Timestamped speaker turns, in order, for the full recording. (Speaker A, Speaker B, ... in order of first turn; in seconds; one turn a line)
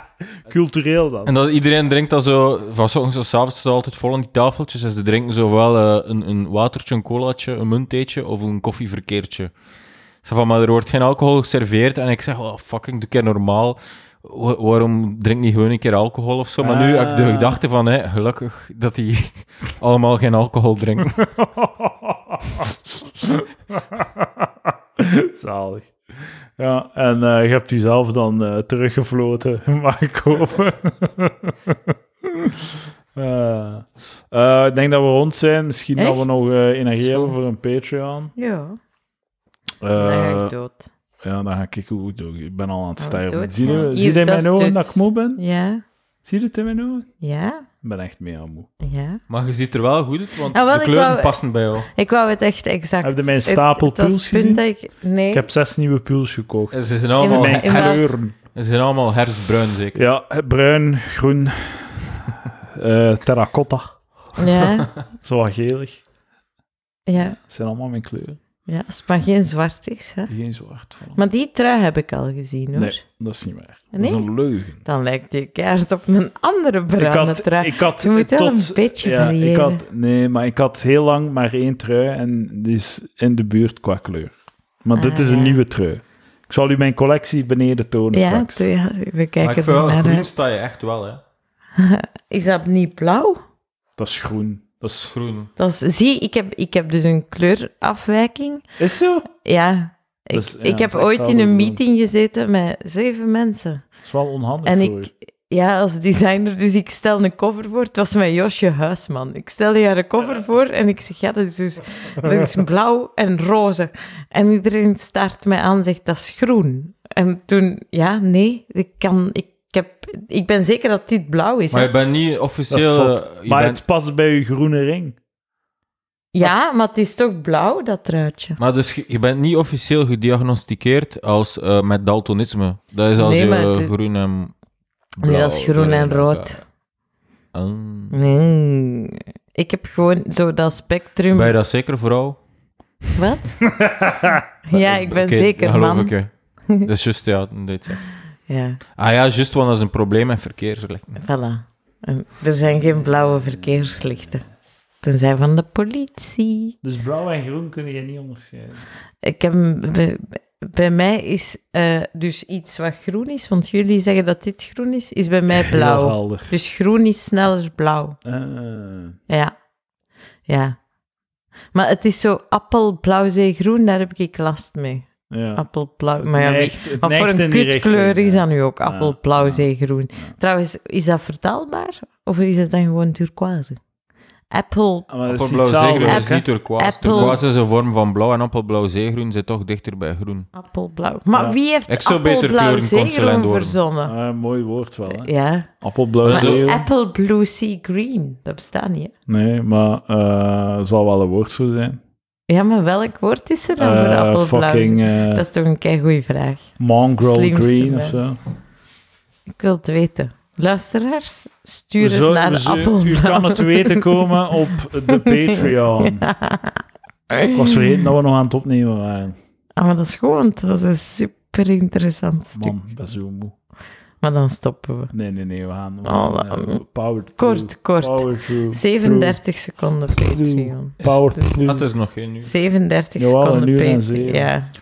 Speaker A: 0.5-1.3
Speaker B: 1.2-9.5
Speaker B: 10.2-21.2
Speaker A: 16.6-17.6
Speaker A: 21.2-24.5
Speaker A: 25.0-25.9
Speaker A: 26.6-32.6
Speaker A: 33.1-38.3
Speaker C: 36.0-36.2
Speaker C: 37.0-37.3
Speaker C: 38.4-38.8
Speaker A: 39.8-40.5
Speaker C: 40.0-40.9
Speaker A: 41.2-45.4
Speaker C: 43.0-45.8
Speaker A: 46.2-47.1
Speaker C: 47.2-47.6
Speaker A: 47.8-48.7
Speaker C: 48.8-49.2
Speaker B: 49.3-51.9
Speaker C: 50.5-51.4
Speaker C: 51.9-55.5
Speaker A: 53.0-54.6
Speaker A: 55.3-56.8
Speaker B: 56.7-60.0
Speaker C: 57.2-58.0
Speaker A: 57.3-58.3
Speaker A: 59.9-64.0
Speaker C: 64.4-64.9
Speaker A: 65.2-66.0
Speaker C: 67.1-67.4
Speaker A: 67.4-68.4
Speaker C: 68.7-70.3
Speaker A: 70.3-71.2
Speaker C: 71.2-73.0
Speaker A: 72.7-74.8
Speaker C: 73.9-79.8
Speaker A: 77.0-88.7
Speaker C: 84.9-85.6
Speaker C: 88.1-90.3
Speaker B: 89.4-91.2
Speaker C: 91.8-93.4
Speaker A: 94.0-95.1
Speaker B: 95.1-95.5
Speaker C: 95.6-98.6
Speaker A: 98.8-99.3
Speaker C: 99.4-103.8
Speaker A: 100.3-101.8
Speaker A: 104.0-105.1
Speaker C: 104.6-121.9
Speaker B: 121.7-123.8
Speaker A: 122.7-125.2
Speaker C: 126.3-128.6
Speaker B: 128.6-134.5
Speaker C: 133.2-133.9
Speaker B: 135.2-136.6
Speaker C: 135.2-136.6
Speaker B: 137.5-138.2
Speaker C: 138.1-141.5
Speaker B: 141.3-142.4
Speaker C: 143.2-143.7
Speaker A: 143.6-144.4
Speaker C: 144.7-146.1
Speaker B: 144.7-148.0
Speaker C: 148.5-148.8
Speaker B: 149.0-151.2
Speaker C: 151.2-154.4
Speaker A: 152.7-154.4
Speaker C: 155.0-156.7
Speaker A: 156.8-158.8
Speaker C: 159.2-168.2
Speaker A: 165.5-166.5
Speaker A: 168.2-169.2
Speaker C: 169.3-169.5
Speaker C: 170.5-170.8
Speaker C: 171.7-183.8
Speaker A: 175.3-175.6
Speaker A: 176.2-179.7
Speaker C: 184.5-185.1
Speaker A: 185.1-186.4
Speaker B: 185.3-190.5
Speaker C: 186.0-187.4
Speaker A: 187.1-187.4
Speaker C: 190.5-194.1
Speaker B: 191.9-193.8
Speaker A: 194.0-195.3
Speaker C: 195.1-195.7
Speaker A: 195.8-196.8
Speaker B: 196.2-196.8
Speaker C: 196.2-199.1
Speaker A: 199.3-202.0
Speaker C: 202.5-208.2
Speaker A: 203.8-205.4
Speaker A: 206.8-208.4
Speaker C: 209.6-214.3
Speaker A: 212.0-216.3
Speaker C: 215.1-216.8
Speaker C: 217.3-218.0
Speaker A: 217.5-219.4
Speaker C: 219.8-222.7
Speaker A: 222.5-223.5
Speaker C: 224.2-225.1
Speaker A: 225.1-229.4
Speaker C: 226.0-226.8
Speaker C: 227.4-231.6
Speaker A: 230.1-231.8
Speaker B: 231.0-232.5
Speaker C: 232.4-234.7
Speaker A: 233.2-234.5